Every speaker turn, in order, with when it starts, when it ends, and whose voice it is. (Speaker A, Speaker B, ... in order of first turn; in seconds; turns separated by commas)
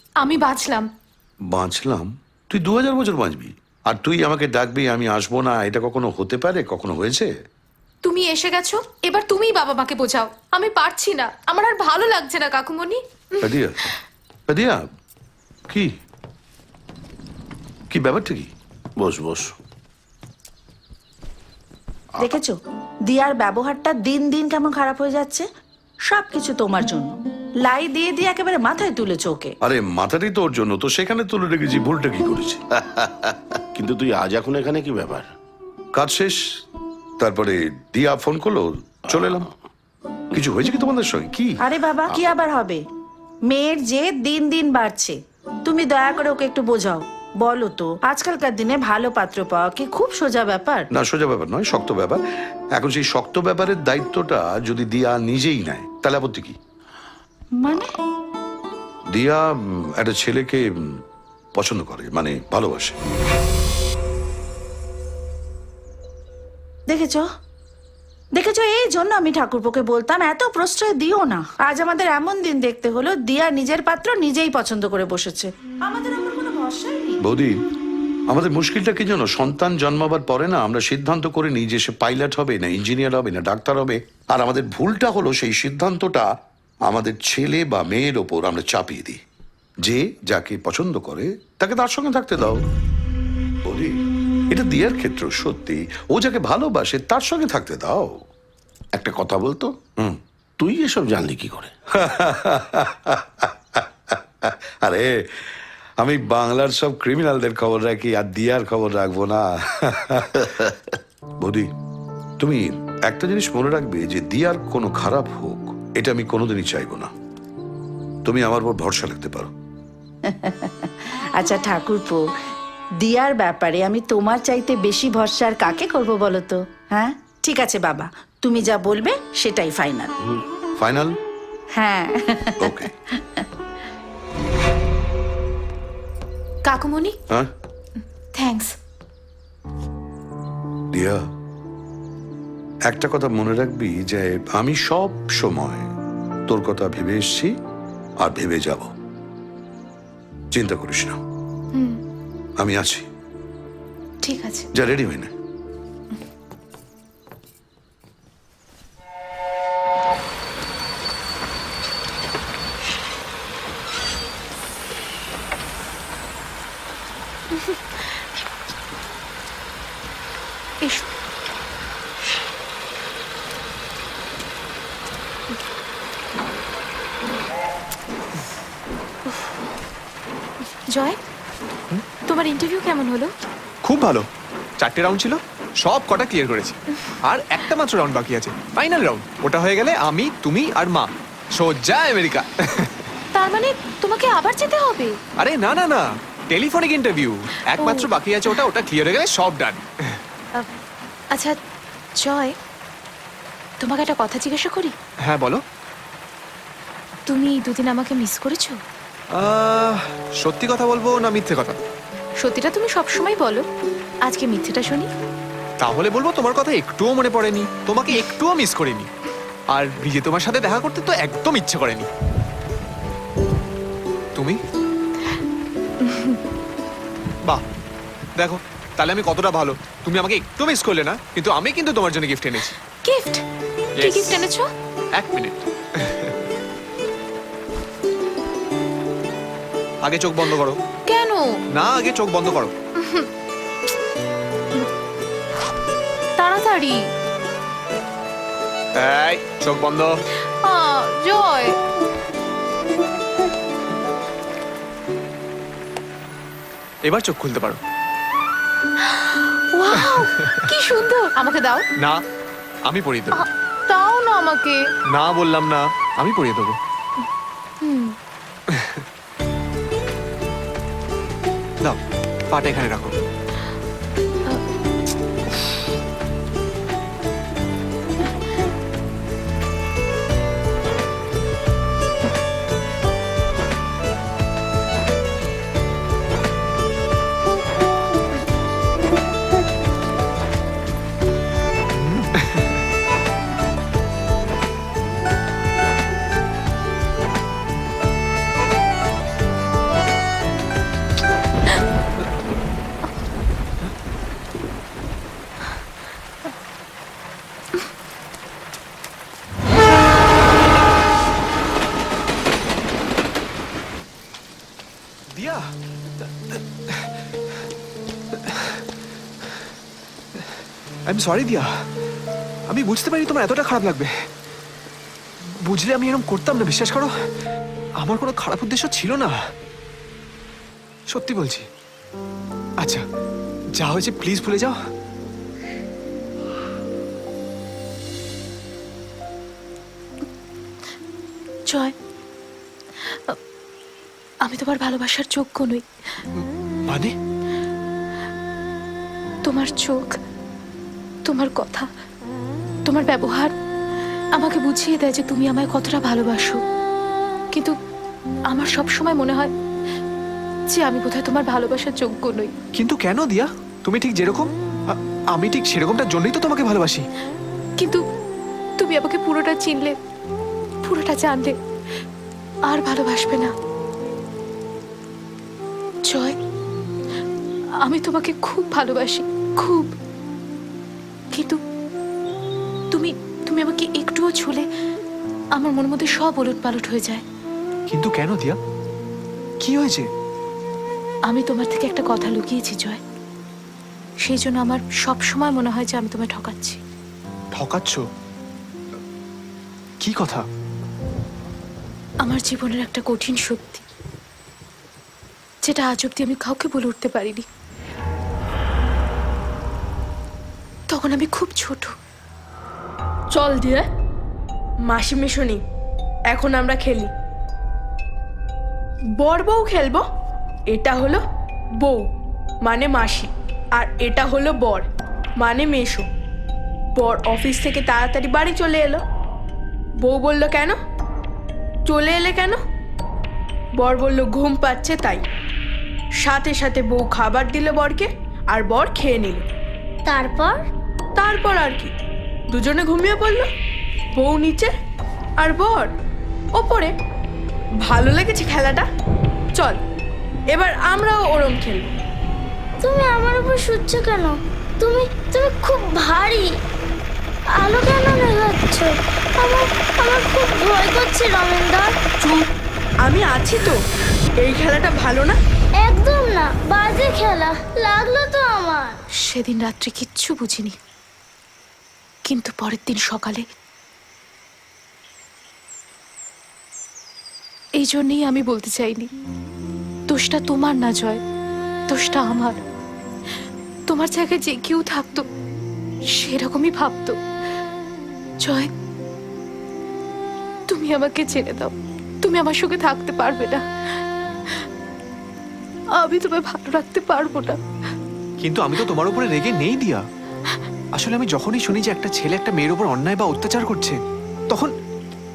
Speaker A: 0.2-0.9, Speaker B: 1.5-7.3, Speaker A: 8.0-13.5, Speaker B: 13.4-13.8, Speaker B: 14.5-14.8, Speaker B: 17.9-18.5, Speaker C: 19.0-19.5, Speaker D: 22.2-22.6, Speaker D: 23.1-25.5, Speaker D: 26.1-29.6, Speaker B: 29.6-32.6, Speaker C: 33.7-35.3, Speaker B: 36.0-36.4, Speaker B: 37.2-39.5, Speaker C: 39.1-39.5, Speaker B: 40.3-41.6, Speaker D: 41.6-42.8, Speaker D: 43.5-50.9, Speaker B: 50.9-52.2, Speaker B: 52.8-56.6, Speaker D: 57.6-57.9, Speaker B: 59.1-60.7, Speaker B: 61.6-63.0, Speaker D: 66.9-67.3, Speaker D: 68.3-77.2, Speaker B: 77.2-77.6, Speaker B: 78.3-86.3, Speaker B: 86.9-89.2, Speaker B: 89.8-92.6, Speaker B: 93.7-93.9, Speaker B: 94.5-98.2, Speaker C: 99.0-99.8, Speaker C: 100.6-101.7, Speaker B: 102.0-105.1, Speaker B: 106.0-110.5, Speaker B: 111.4-111.7, Speaker B: 112.4-117.1, Speaker B: 118.2-119.5, Speaker D: 120.3-122.2, Speaker D: 123.0-130.1, Speaker B: 130.8-131.2, Speaker D: 131.8-133.4, Speaker B: 132.6-132.9, Speaker A: 136.7-137.2, Speaker A: 138.3-138.7, Speaker B: 140.9-141.2, Speaker B: 142.9-145.9, Speaker B: 146.5-147.5, Speaker B: 148.2-148.9, Speaker B: 150.5-151.2, Speaker A: 151.7-152.0, Speaker B: 152.6-153.1, Speaker A: 154.2-154.7, Speaker B: 154.8-155.3, Speaker A: 180.9-181.2, Speaker A: 182.3-183.3, Speaker E: 183.8-184.3, Speaker E: 184.8-192.9, Speaker A: 193.3-195.2, Speaker E: 195.4-200.2, Speaker A: 197.8-198.1, Speaker A: 201.3-201.6, Speaker A: 202.2-202.6, Speaker A: 203.8-204.9, Speaker E: 205.3-205.6, Speaker A: 207.3-208.8, Speaker E: 209.3-211.8, Speaker A: 212.4-213.7, Speaker A: 214.3-215.1, Speaker E: 215.8-219.1, Speaker E: 219.7-222.1, Speaker A: 226.0-226.4, Speaker E: 228.4-232.8, Speaker A: 233.0-233.4, Speaker E: 234.0-234.4, Speaker A: 234.0-234.7, Speaker E: 235.2-236.4, Speaker E: 240.0-240.8, Speaker A: 241.1-241.5, Speaker E: 241.8-242.7, Speaker A: 243.0-243.3, Speaker A: 246.4-247.0, Speaker E: 249.0-250.2, Speaker A: 250.6-251.8, Speaker E: 257.1-257.8, Speaker A: 259.1-261.9, Speaker E: 260.0-260.6, Speaker E: 262.9-263.4, Speaker A: 263.4-264.8, Speaker E: 265.1-266.8, Speaker A: 267.8-268.1, Speaker E: 268.7-269.0, Speaker E: 272.5-273.2, Speaker E: 291.9-292.8, Speaker E: 315.3-315.6, Speaker E: 316.2-317.1, Speaker E: 318.4-318.8, Speaker E: 321.1-321.7, Speaker E: 322.7-324.1, Speaker E: 325.6-327.1, Speaker E: 328.0-329.4, Speaker E: 331.1-331.7, Speaker E: 333.8-334.8, Speaker A: 341.7-341.9, Speaker A: 344.4-345.8, Speaker E: 346.4-347.1, Speaker A: 349.4-350.2, Speaker A: 351.3-351.9, Speaker A: 352.9-353.5, Speaker A: 354.3-356.6, Speaker A: 358.5-359.5, Speaker A: 360.7-362.5, Speaker E: 362.8-367.1, Speaker A: 368.8-369.9, Speaker A: 370.8-371.6, Speaker A: 372.7-373.5, Speaker A: 376.1-376.4, Speaker A: 377.8-379.9, Speaker A: 381.3-381.6, Speaker A: 382.9-384.6, Speaker A: 385.6-387.2, Speaker E: 387.9-388.6, Speaker E: 389.6-390.1, Speaker A: 391.3-393.0, Speaker A: 394.2-396.8, Speaker E: 397.5-398.0, Speaker E: 400.0-400.4, Speaker A: 402.2-403.8, Speaker A: 405.6-407.4, Speaker A: 410.9-411.9, Speaker F: 413.3-413.9, Speaker F: 414.9-415.6, Speaker F: 416.3-417.1, Speaker F: 419.2-420.1, Speaker F: 420.7-421.2, Speaker F: 422.6-424.9, Speaker F: 425.4-426.1, Speaker F: 427.0-429.0, Speaker F: 430.0-430.8, Speaker F: 431.9-432.6, Speaker F: 433.8-435.2, Speaker F: 436.2-439.5, Speaker G: 440.1-440.6, Speaker F: 441.2-441.9, Speaker F: 442.5-443.5, Speaker F: 444.2-444.7, Speaker F: 445.4-445.9, Speaker F: 446.6-446.9, Speaker F: 447.8-448.9, Speaker F: 450.5-451.9, Speaker G: 452.8-456.5, Speaker G: 457.6-462.0, Speaker F: 462.2-462.5, Speaker F: 463.0-463.8, Speaker F: 464.4-465.4, Speaker G: 465.8-469.0, Speaker A: 469.2-470.8, Speaker A: 472.3-473.4, Speaker A: 477.8-479.1, Speaker A: 480.1-481.2, Speaker A: 481.9-482.6, Speaker A: 483.9-485.3, Speaker A: 486.1-487.2, Speaker A: 488.4-488.7, Speaker A: 490.7-493.6, Speaker A: 496.0-497.6, Speaker E: 498.4-500.0, Speaker E: 501.0-504.0